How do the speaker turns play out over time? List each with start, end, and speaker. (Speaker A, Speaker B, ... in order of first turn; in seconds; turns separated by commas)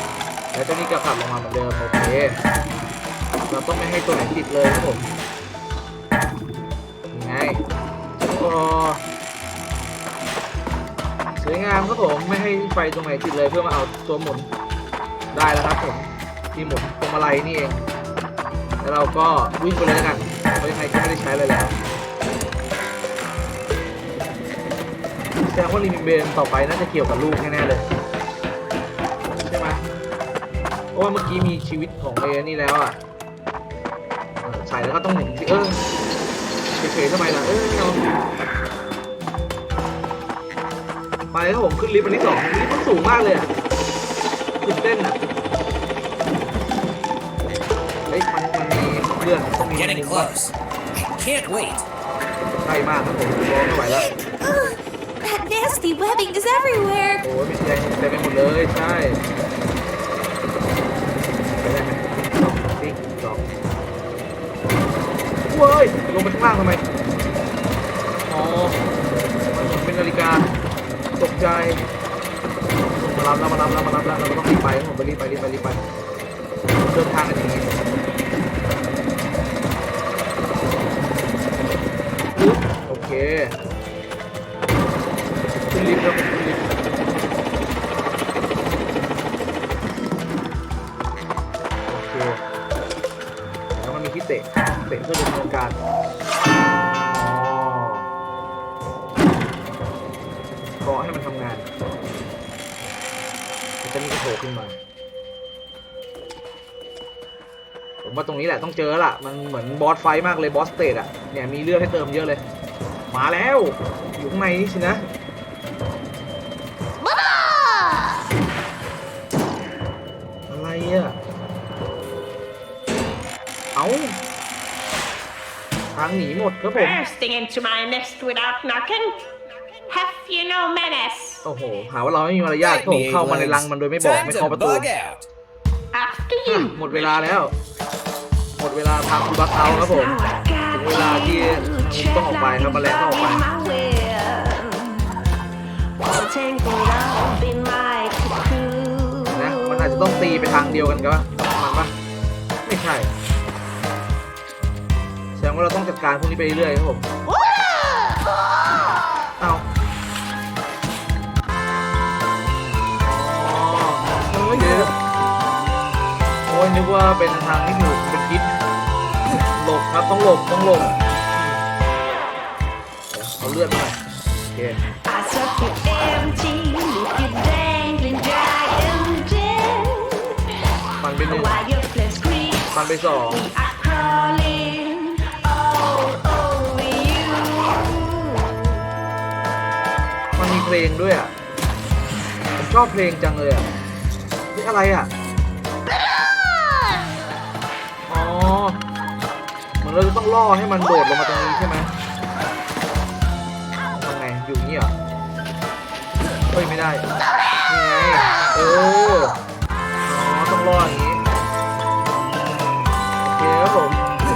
Speaker A: 0.5-2.4, Speaker A: 3.5-5.1, Speaker A: 7.1-7.6, Speaker A: 8.2-9.0, Speaker A: 11.3-14.5, Speaker A: 15.3-17.8, Speaker A: 18.8-21.8, Speaker A: 25.4-27.9, Speaker A: 29.4-29.8, Speaker A: 30.9-33.0, Speaker A: 34.4-35.8, Speaker A: 36.8-38.0, Speaker A: 41.3-43.5, Speaker A: 44.6-45.2, Speaker A: 48.1-50.3, Speaker B: 49.6-51.9, Speaker A: 52.6-54.1, Speaker C: 53.8-57.2, Speaker A: 57.2-59.2, Speaker A: 61.6-63.5, Speaker A: 65.5-66.9, Speaker A: 68.3-68.8, Speaker A: 69.5-70.5, Speaker A: 71.2-71.9, Speaker A: 73.0-75.8, Speaker A: 76.8-77.8, Speaker A: 82.3-83.5, Speaker A: 85.7-86.7, Speaker A: 91.9-92.4, Speaker A: 93.7-95.8, Speaker A: 97.1-98.1, Speaker A: 100.8-101.7, Speaker A: 103.8-104.8, Speaker A: 108.0-112.4, Speaker A: 113.1-115.0, Speaker A: 120.5-121.2, Speaker A: 123.7-124.2, Speaker A: 125.9-127.1, Speaker D: 126.7-129.2, Speaker D: 129.9-131.4, Speaker A: 131.4-134.9, Speaker B: 132.6-135.3, Speaker D: 135.9-136.7, Speaker A: 136.5-137.5, Speaker A: 138.6-143.5, Speaker D: 139.6-145.0, Speaker D: 146.0-150.5, Speaker A: 149.3-151.9, Speaker A: 152.7-153.1, Speaker A: 155.3-157.1, Speaker A: 159.4-159.7, Speaker A: 163.0-164.9, Speaker A: 166.5-168.6, Speaker A: 169.4-171.6, Speaker A: 173.1-174.0, Speaker A: 174.5-174.8, Speaker D: 175.1-180.3, Speaker A: 181.0-181.6, Speaker D: 181.2-188.5, Speaker A: 182.7-183.4, Speaker A: 190.3-191.3, Speaker A: 192.6-193.7, Speaker A: 194.5-195.1, Speaker A: 198.1-198.8, Speaker A: 199.8-201.9, Speaker A: 203.9-204.9, Speaker A: 206.5-207.1, Speaker A: 207.7-209.4, Speaker A: 210.0-211.2, Speaker A: 213.2-214.0